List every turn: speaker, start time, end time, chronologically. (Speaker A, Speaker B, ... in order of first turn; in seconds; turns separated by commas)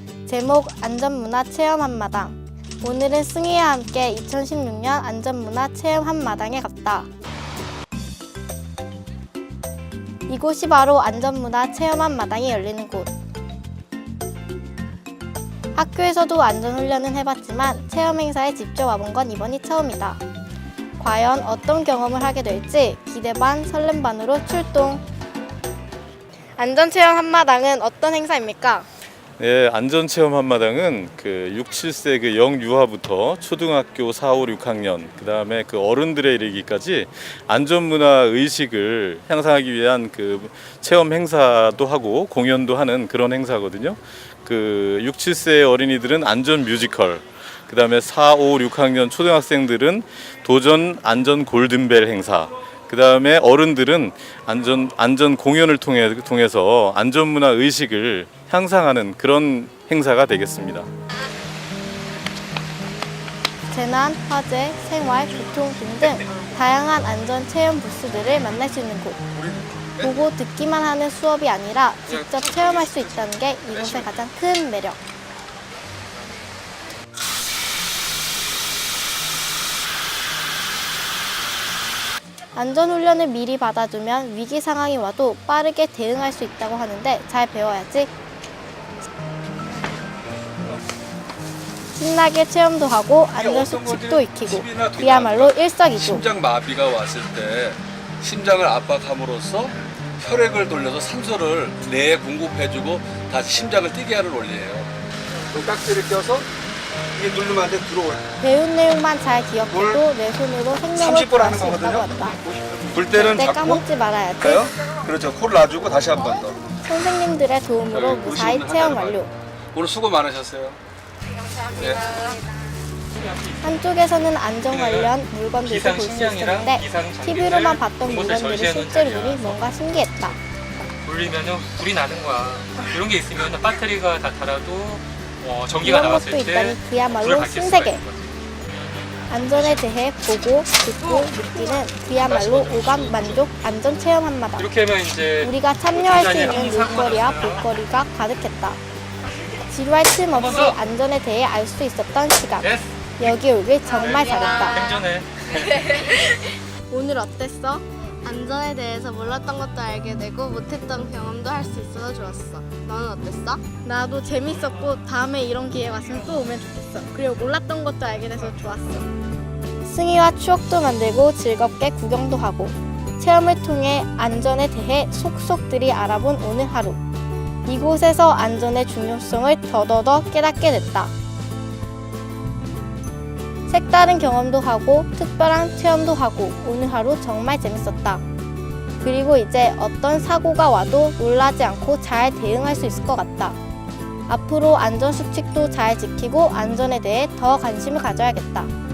Speaker A: 0.2-7.1, Speaker A: 10.3-13.1, Speaker A: 15.7-20.2, Speaker A: 21.0-25.0, Speaker A: 26.6-28.9, Speaker B: 29.4-60.9, Speaker A: 63.7-69.2, Speaker C: 69.3-70.2, Speaker A: 70.0-75.0, Speaker D: 72.1-73.2, Speaker D: 73.7-74.1, Speaker A: 82.5-88.1, Speaker A: 91.9-96.2, Speaker C: 93.3-104.9, Speaker C: 105.5-106.5, Speaker C: 107.1-108.2, Speaker A: 108.4-112.4, Speaker C: 109.7-110.0, Speaker C: 111.0-113.8, Speaker A: 113.1-114.7, Speaker C: 114.4-116.6, Speaker A: 116.7-119.3, Speaker C: 117.9-119.2, Speaker C: 119.7-120.8, Speaker C: 121.7-122.1, Speaker D: 123.1-123.8, Speaker A: 123.6-130.4, Speaker D: 124.7-129.6, Speaker D: 131.0-138.3, Speaker A: 135.8-138.0, Speaker A: 139.3-144.7, Speaker D: 141.0-143.4, Speaker D: 144.6-147.6, Speaker A: 145.4-148.8, Speaker A: 149.7-154.8, Speaker D: 150.3-150.8, Speaker D: 152.6-153.4, Speaker D: 153.9-155.8, Speaker E: 154.4-155.0, Speaker E: 155.8-156.4, Speaker A: 156.9-157.8, Speaker E: 158.2-163.6, Speaker A: 163.8-169.1, Speaker A: 169.8-177.0, Speaker A: 177.7-181.1, Speaker A: 183.7-188.2, Speaker A: 189.0-193.6, Speaker A: 194.3-198.7